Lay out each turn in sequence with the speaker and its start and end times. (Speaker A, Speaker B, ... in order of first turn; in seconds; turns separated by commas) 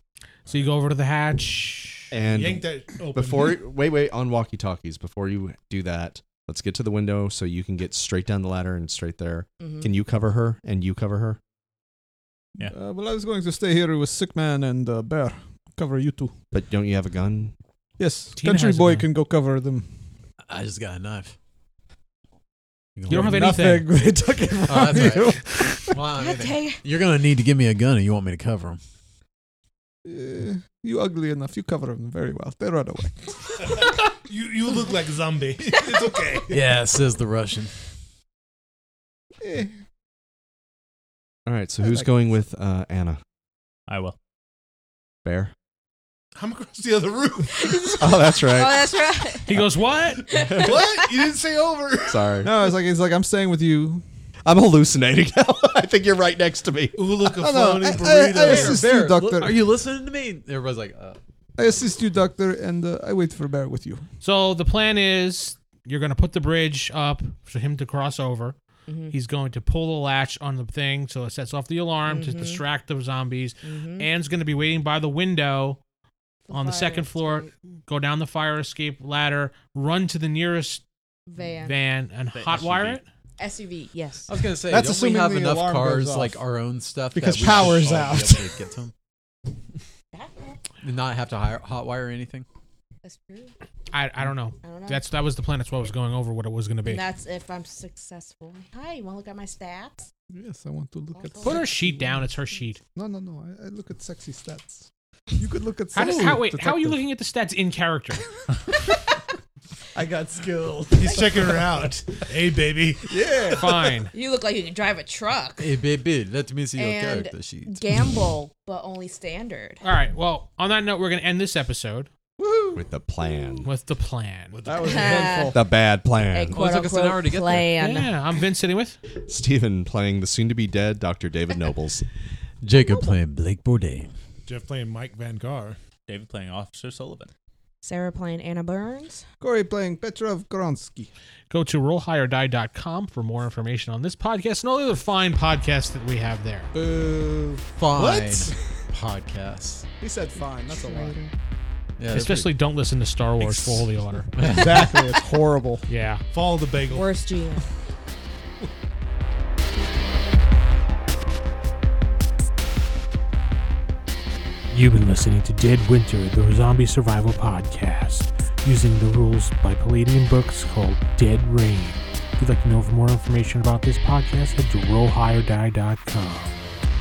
Speaker A: 0.5-2.1, Speaker B: 2.1-11.4, Speaker C: 2.3-3.6, Speaker D: 9.6-9.9, Speaker E: 12.7-16.3, Speaker B: 16.5-17.5, Speaker E: 18.0-20.0, Speaker A: 18.4-19.1, Speaker F: 20.5-21.3, Speaker F: 22.9-23.8, Speaker A: 23.1-23.9, Speaker E: 23.1-26.0, Speaker F: 24.7-28.8, Speaker D: 26.1-26.8, Speaker E: 30.0-33.8, Speaker C: 33.7-36.6, Speaker F: 36.5-37.7, Speaker E: 39.4-39.7, Speaker B: 41.5-43.2, Speaker E: 41.8-42.1, Speaker G: 43.9-44.1, Speaker B: 45.2-45.5, Speaker C: 46.4-47.6, Speaker D: 47.5-49.6, Speaker B: 48.0-48.9, Speaker A: 49.5-50.2, Speaker D: 50.3-51.3, Speaker C: 50.3-52.4, Speaker B: 50.4-50.8, Speaker B: 52.1-52.5, Speaker E: 52.4-54.0, Speaker B: 54.5-57.0, Speaker C: 56.9-58.9, Speaker E: 57.2-59.7, Speaker F: 58.4-61.2, Speaker E: 61.6-64.0, Speaker A: 64.2-68.6, Speaker D: 68.9-69.1, Speaker A: 69.1-75.8, Speaker D: 72.1-72.6, Speaker D: 73.6-74.1, Speaker D: 76.5-77.5, Speaker A: 76.5-80.8, Speaker D: 81.3-81.8, Speaker A: 81.6-83.0, Speaker G: 82.3-83.0, Speaker D: 83.4-84.5, Speaker F: 84.3-88.9, Speaker E: 84.7-86.4, Speaker E: 87.1-88.5, Speaker D: 90.1-90.6, Speaker F: 90.8-92.5, Speaker D: 93.0-93.5, Speaker A: 93.9-97.0, Speaker D: 94.6-95.0, Speaker D: 96.8-100.1, Speaker E: 100.3-102.2, Speaker D: 101.1-101.9, Speaker A: 101.4-102.8, Speaker E: 102.9-107.0, Speaker A: 105.9-108.3, Speaker E: 109.9-111.7, Speaker C: 111.0-113.1, Speaker E: 113.1-114.0, Speaker A: 113.6-114.1, Speaker D: 114.1-115.8, Speaker F: 115.6-118.2, Speaker D: 116.7-119.8, Speaker A: 119.8-122.1, Speaker E: 122.4-122.8, Speaker B: 122.7-123.7, Speaker D: 123.2-123.6, Speaker A: 123.6-124.6, Speaker C: 124.5-125.5, Speaker E: 124.7-125.6, Speaker D: 124.8-125.6, Speaker B: 125.5-126.6, Speaker D: 126.3-128.1, Speaker F: 126.5-127.7, Speaker A: 127.8-129.0, Speaker B: 129.2-132.1, Speaker F: 132.6-134.1, Speaker D: 132.7-133.2, Speaker C: 134.4-135.8, Speaker G: 136.1-137.3, Speaker D: 137.8-139.2, Speaker E: 139.4-141.1, Speaker A: 141.5-146.7, Speaker E: 146.7-148.0, Speaker F: 147.7-149.8, Speaker C: 148.1-148.5, Speaker E: 150.0-151.2, Speaker D: 150.7-151.3, Speaker F: 152.0-152.5, Speaker A: 152.1-154.4, Speaker F: 154.3-154.8, Speaker E: 154.4-155.8, Speaker A: 155.9-156.2, Speaker C: 156.3-157.1, Speaker D: 156.9-157.6, Speaker A: 164.7-176.6